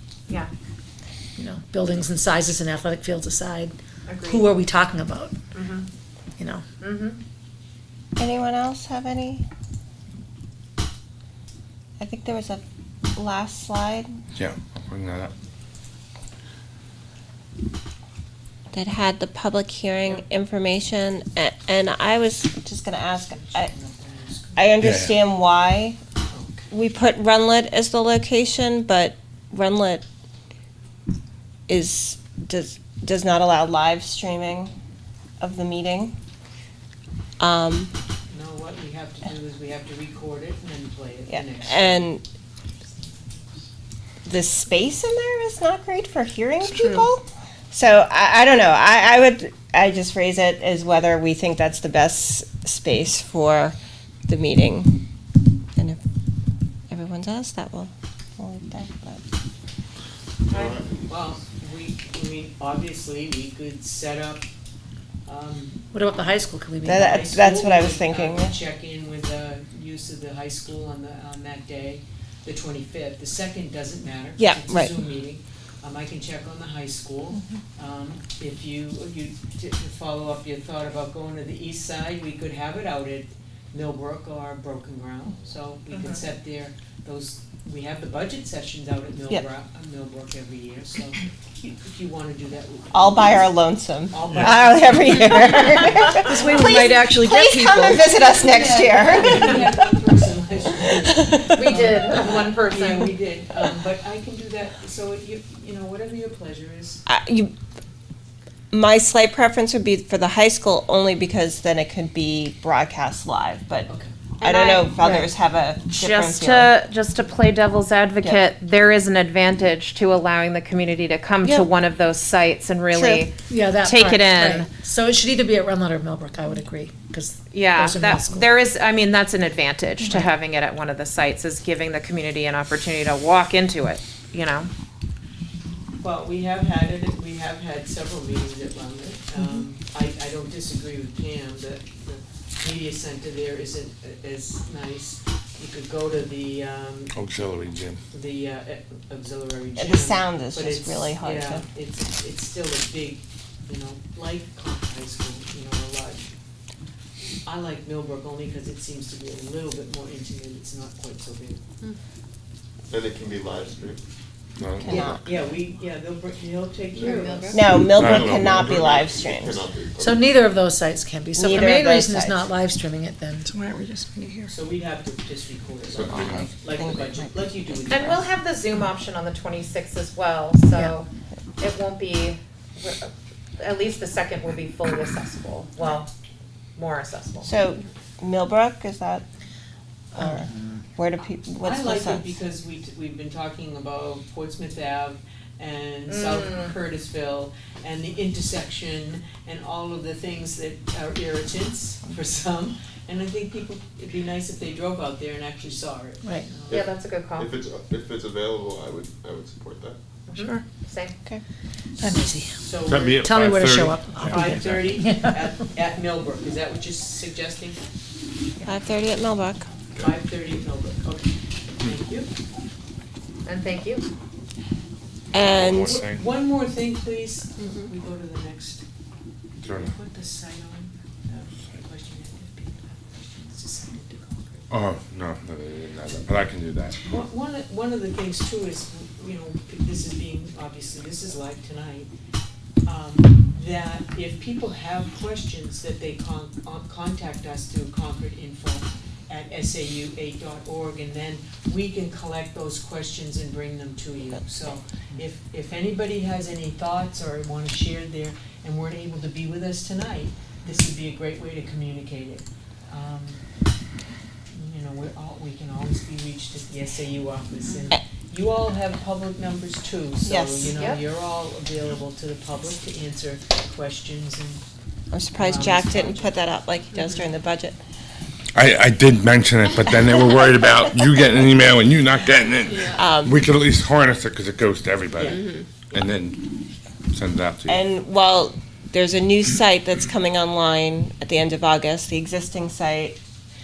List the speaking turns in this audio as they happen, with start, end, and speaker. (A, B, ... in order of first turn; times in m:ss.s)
0:01.4-0:03.7 A
0:04.1-0:04.5 B
0:04.3-0:05.3 A
0:05.5-0:05.9 B
0:06.4-0:06.6 A
0:06.8-0:07.2 B
0:08.2-0:09.4 C
0:12.0-0:12.6 C
0:13.2-0:14.1 C
0:14.4-0:15.3 D
0:18.7-0:23.7 C
0:23.1-0:24.9 E
0:24.6-0:26.0 C
0:24.8-0:25.2 D
0:26.3-0:26.7 E
0:26.7-0:30.0 C
0:31.7-0:34.7 C
0:35.4-0:36.2 C
0:37.4-0:37.9 C
0:38.3-0:42.1 E
0:41.3-0:42.2 C
0:44.2-0:53.8 C
0:54.3-0:55.0 C
0:56.9-0:59.2 C
1:00.5-1:01.1 F
1:00.5-1:04.4 E
1:05.3-1:05.8 E
1:05.9-1:07.2 A
1:06.8-1:08.6 C
1:06.9-1:33.5 E
1:14.4-1:15.0 C
1:25.9-1:26.2 B
1:32.9-1:39.8 C
1:34.1-1:36.2 E
1:36.2-1:38.1 G
1:38.4-1:47.0 E
1:39.2-1:39.6 B
1:41.5-1:43.2 B
1:47.1-1:47.5 C
1:48.7-1:53.9 C
1:53.9-1:54.8 E
1:54.4-1:56.8 C
1:54.4-1:55.3 B
1:55.9-2:04.7 B
2:01.4-2:01.7 C
2:02.9-2:03.3 C
2:03.5-2:08.5 A
2:07.5-2:14.7 B
2:10.0-2:10.3 A
2:16.0-2:27.1 E
2:27.1-2:28.0 D
2:28.1-2:36.2 E
2:29.8-2:31.7 C
2:37.5-2:41.6 E
2:42.9-2:44.0 F
2:44.6-2:45.2 D
2:44.8-2:45.2 C
2:44.9-2:47.6 E
2:47.0-2:47.7 G
2:47.1-2:50.5 F
2:47.5-2:49.6 C
2:47.9-2:48.7 D
2:50.0-2:53.6 A
2:51.4-2:52.5 C
2:53.7-2:54.3 G
2:54.5-2:58.3 E
2:55.9-2:56.5 F
2:56.1-2:57.7 C
2:57.9-3:01.1 B
3:01.6-3:06.1 B
3:06.8-3:07.5 B
3:07.4-3:09.2 C
3:10.1-3:12.3 C
3:11.6-3:26.9 E
3:16.1-3:16.7 B
3:26.2-3:26.5 A
3:26.7-3:30.0 F
3:26.7-3:27.5 B
3:30.3-3:31.2 B
3:32.0-3:32.6 A
3:32.5-3:33.2 E
3:32.8-3:34.9 D
3:33.2-3:35.5 A
3:34.2-3:37.8 E
3:38.6-3:39.7 C
3:40.0-3:42.3 E
3:43.4-3:44.0 B
3:45.3-3:46.0 C
3:45.4-3:46.2 D
3:45.8-3:48.8 E
3:49.6-3:49.9 D
3:49.7-3:54.7 E
3:54.7-3:57.0 D
3:57.0-4:02.1 E
4:02.8-4:23.4 E
4:24.5-4:34.6 E
4:30.2-4:30.8 C
4:30.7-4:31.0 B
4:35.1-4:37.8 C
4:35.4-4:36.4 E
4:38.6-4:46.4 D
4:42.7-4:43.0 G
4:42.9-4:43.4 C
4:45.2-4:46.1 E
4:47.1-4:47.8 D
4:47.7-4:53.2 C